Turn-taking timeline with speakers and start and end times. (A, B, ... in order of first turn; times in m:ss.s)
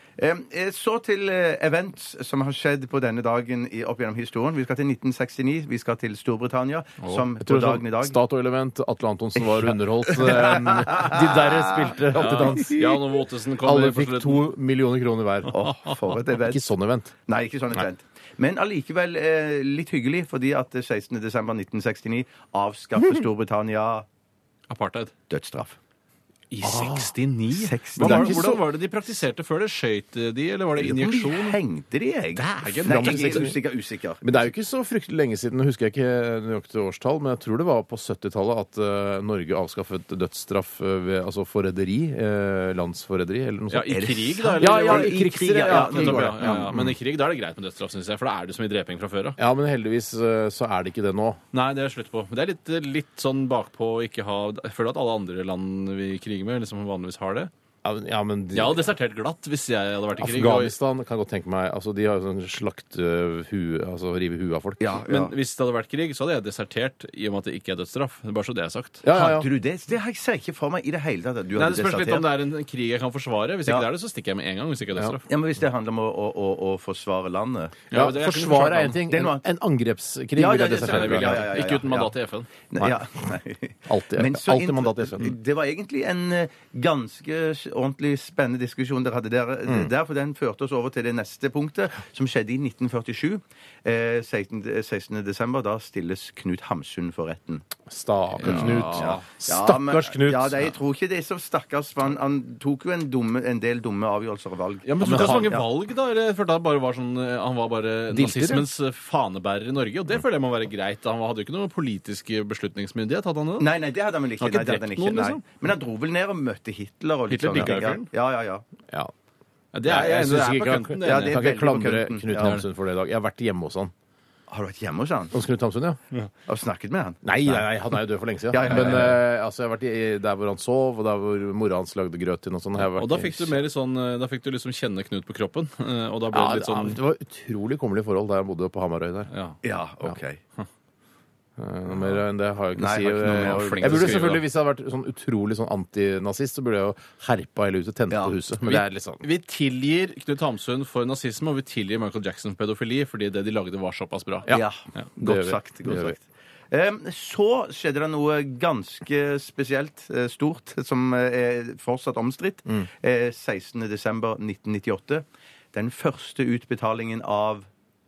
0:00.2-0:08.2 A
0:07.0-0:07.3 B
0:07.4-0:13.0 C
0:09.4-0:13.0 A
0:12.2-0:14.5 B
0:13.6-0:15.6 C
0:15.5-0:16.7 A
0:16.3-0:17.1 C
0:17.3-0:24.1 A
0:24.7-0:25.1 B
0:25.3-0:25.8 A
0:26.5-0:31.6 B
0:26.6-0:27.1 C
0:27.5-0:28.4 A
0:28.0-0:28.6 C
0:30.8-0:34.3 A
0:32.4-0:33.5 B
0:32.8-0:33.6 C
0:34.2-0:44.0 C
0:43.7-0:49.4 B
0:43.9-0:46.7 A
0:44.6-0:47.0 C
0:49.4-0:51.4 C
0:51.5-0:57.5 B
0:57.8-0:58.8 C
0:58.5-1:00.8 B
1:00.2-1:05.0 C
1:04.8-1:05.3 A
1:05.0-1:09.1 B
1:09.0-1:09.5 C
1:09.1-1:12.3 A
1:11.6-1:15.2 B
1:15.3-1:17.8 A
1:17.9-1:19.0 B
1:17.9-1:21.5 C
1:19.1-1:19.5 A
1:20.4-1:22.1 A
1:20.8-1:22.5 B
1:22.7-1:37.6 A
1:23.9-1:25.4 C
1:29.7-1:29.9 C
1:37.9-1:40.7 C
1:38.4-1:39.3 B
1:38.4-1:45.6 A
1:44.8-1:53.7 B
1:45.0-1:45.6 C
1:48.1-1:48.7 C
1:53.6-1:58.6 A
1:54.4-1:55.4 B
1:57.3-1:58.1 B
1:59.7-2:01.4 B
1:59.9-2:03.9 C
2:01.0-2:02.6 A
2:02.4-2:02.6 B
2:04.5-2:05.3 A
2:05.3-2:06.0 C
2:06.5-2:07.7 A
2:07.2-2:13.5 C
2:08.5-2:09.2 A
2:12.8-2:17.0 B
2:16.3-2:19.3 C
2:19.3-2:19.6 B
2:19.6-2:20.4 A
2:21.6-2:29.2 C
2:22.8-2:24.4 A
2:23.2-2:24.4 B
2:28.1-2:28.4 A
2:28.6-2:35.1 B
2:34.5-2:47.7 A
2:35.2-2:36.2 C